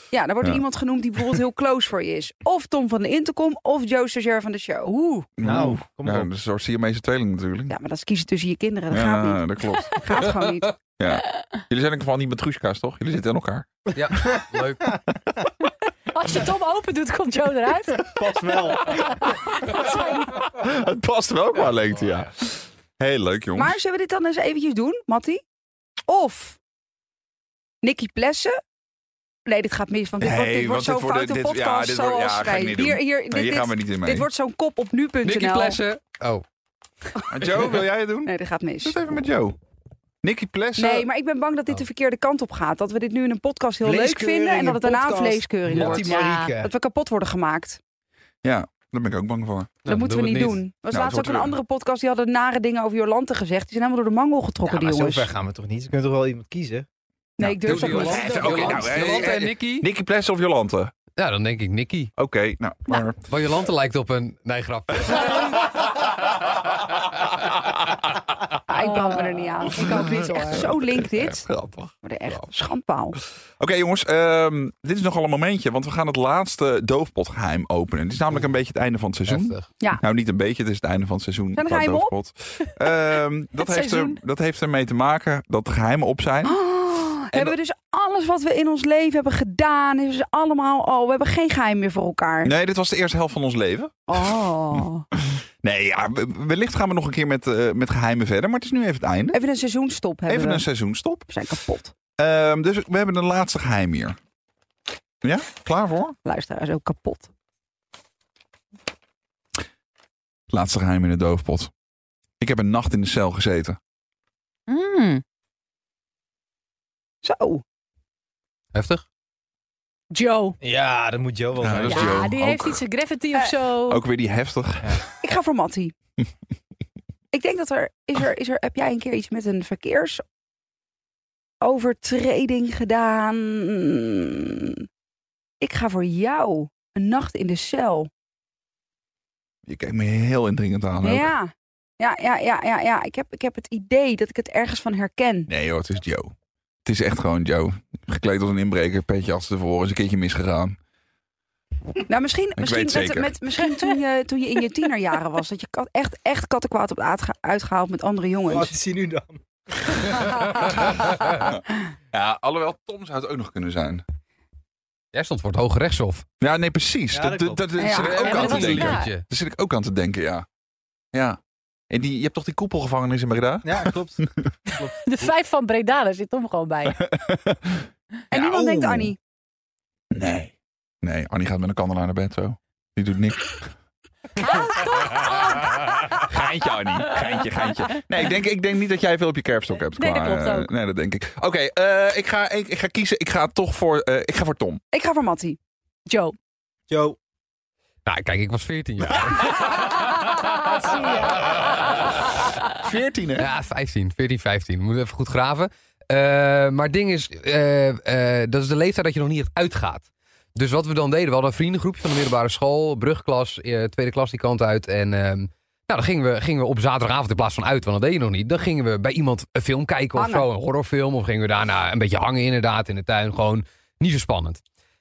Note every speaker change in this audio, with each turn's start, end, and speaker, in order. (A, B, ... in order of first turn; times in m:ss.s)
0:00.1-0:05.3 A
0:05.4-0:07.7 B
0:05.4-0:06.3 C
0:07.7-0:10.7 A
0:08.9-0:10.0 B
0:11.0-0:13.7 B
0:13.9-0:15.0 D
0:14.2-0:14.6 C
0:16.1-0:18.1 E
0:18.0-0:19.2 C
0:18.9-0:20.3 E
0:19.9-0:23.8 B
0:23.5-0:25.4 A
0:26.1-0:26.6 A
0:27.8-0:28.6 A
0:29.4-0:35.8 A
0:30.2-0:34.3 B
0:35.2-0:36.4 D
0:37.3-0:39.6 B
0:38.2-0:39.0 A
0:40.2-0:41.1 B
0:40.8-0:47.8 A
0:43.8-0:46.7 C
0:45.7-0:46.0 D
0:45.9-0:46.5 E
0:48.4-0:49.7 B
0:49.8-0:50.6 D
0:49.9-0:55.3 A
0:50.9-0:51.5 B
0:54.6-0:56.9 C
0:57.4-0:58.9 A
0:57.4-1:00.9 B
0:57.6-0:59.9 D
0:57.8-0:58.7 C
1:01.2-1:02.1 D
1:02.2-1:03.2 B
1:03.1-1:05.7 D
1:08.7-1:11.5 A
1:08.8-1:09.9 E
1:09.8-1:11.9 B
1:12.0-1:13.2 A
1:13.6-1:26.6 B
1:19.3-1:19.7 D
1:21.6-1:22.1 A
1:23.6-1:24.2 E
1:26.4-1:32.5 A
1:32.4-1:39.4 B
1:34.1-1:35.0 A
1:39.3-1:40.7 A
1:40.3-1:41.3 B
1:41.3-1:41.9 A
1:42.2-1:44.2 B
1:45.2-1:46.2 B
1:46.2-1:47.3 A
1:50.5-1:51.7 B
1:52.4-1:53.8 B
1:54.7-1:55.2 E
1:57.2-1:57.6 A
1:58.7-1:59.0 D
2:00.1-2:00.6 E
2:00.6-2:02.2 C
2:01.6-2:02.8 B
2:01.8-2:04.0 E
2:03.9-2:05.0 B
2:05.2-2:05.9 A
2:07.3-2:10.2 A
2:11.6-2:14.8 A
2:15.6-2:18.1 A
2:19.6-2:21.3 B
2:21.0-2:25.5 A
2:25.5-2:26.3 B
2:26.8-2:30.8 B
2:32.0-2:38.7 A
2:32.6-2:33.3 B
2:38.5-2:40.0 C
2:42.1-2:44.0 B
2:45.1-2:46.2 D
2:46.4-2:50.4 B
2:47.1-2:47.6 C
2:47.8-2:48.4 A
2:47.9-2:49.2 D
2:48.2-2:49.1 E
2:51.1-2:51.4 B
2:51.9-2:54.3 B
2:53.6-2:55.0 C
2:54.7-2:57.0 E
2:57.0-2:59.1 B
2:58.3-2:59.2 A
3:00.1-3:03.7 B
3:04.8-3:05.7 A
3:06.1-3:14.8 B
3:10.0-3:10.7 E
3:14.9-3:15.6 A
3:16.1-3:16.4 E
3:16.9-3:17.2 C
3:18.0-3:20.1 D
3:20.8-3:21.3 E
3:22.7-3:23.5 B
3:23.4-3:44.6 D
3:40.1-3:40.5 A